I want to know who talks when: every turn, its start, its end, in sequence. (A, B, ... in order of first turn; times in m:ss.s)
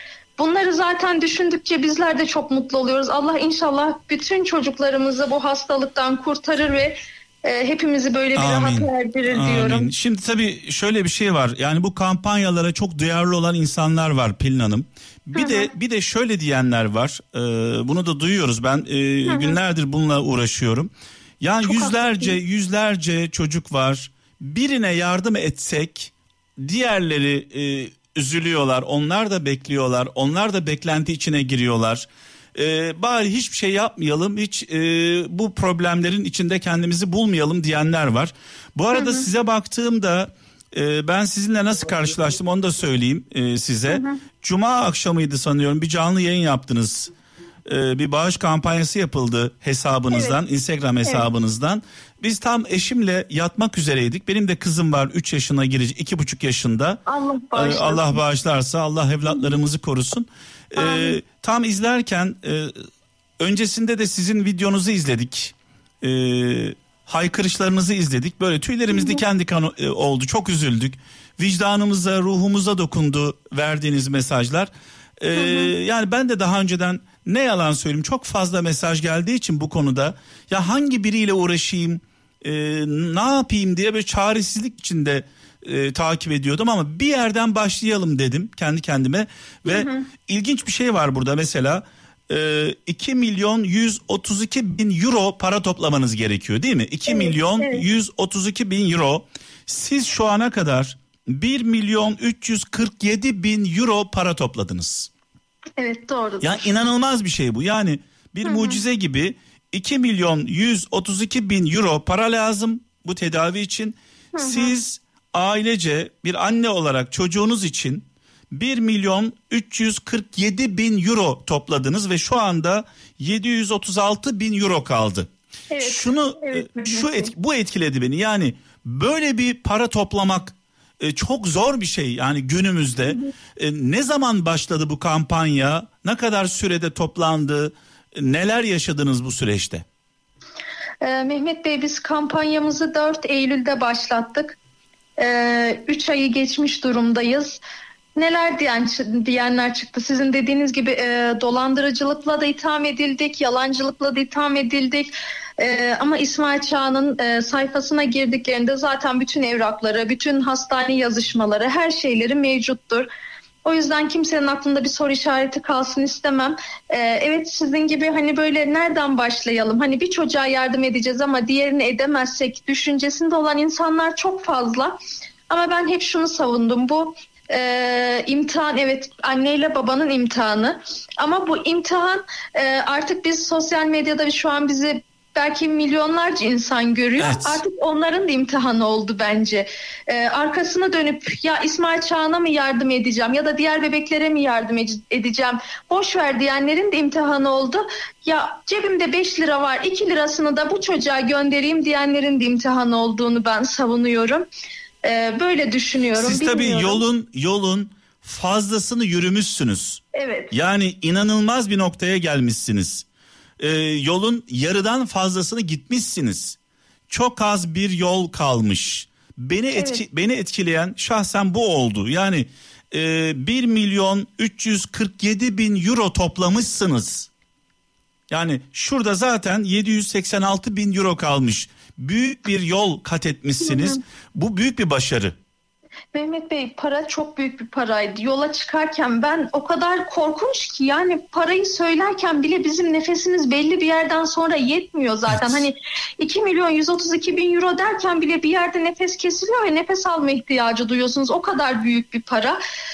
0:00.4-0:09.9 A
0:08.3-0:47.1 B
0:15.3-0:15.7 A
0:19.3-0:19.6 A
0:21.6-0:22.4 A
0:38.9-0:39.3 A
0:43.9-0:44.2 A
0:47.6-0:57.0 B
0:50.1-0:50.4 A
0:57.0-0:58.2 A
0:57.5-1:02.7 B
1:00.8-1:01.2 A
1:03.4-1:45.1 B
1:08.9-1:09.2 A
1:15.4-1:15.7 A
1:29.7-1:30.0 A
1:37.1-1:37.8 A
1:45.8-1:46.7 A
1:46.4-2:05.3 B
1:48.4-1:48.8 A
1:54.3-1:54.8 A
2:05.7-2:07.3 A
2:05.8-2:19.8 B
2:21.0-2:24.6 A
2:25.2-2:27.6 A
2:28.2-2:43.1 A
2:43.6-2:55.0 A
2:55.5-3:24.4 A
3:07.2-3:07.6 B
3:25.0-3:27.0 A
3:26.2-3:33.0 B
3:30.1-3:30.5 A
3:33.6-3:36.6 B
3:37.1-3:47.3 B
3:39.7-3:40.0 A
3:48.3-3:55.4 B
3:53.6-3:54.0 A
3:56.1-4:12.6 A
4:05.3-4:05.6 B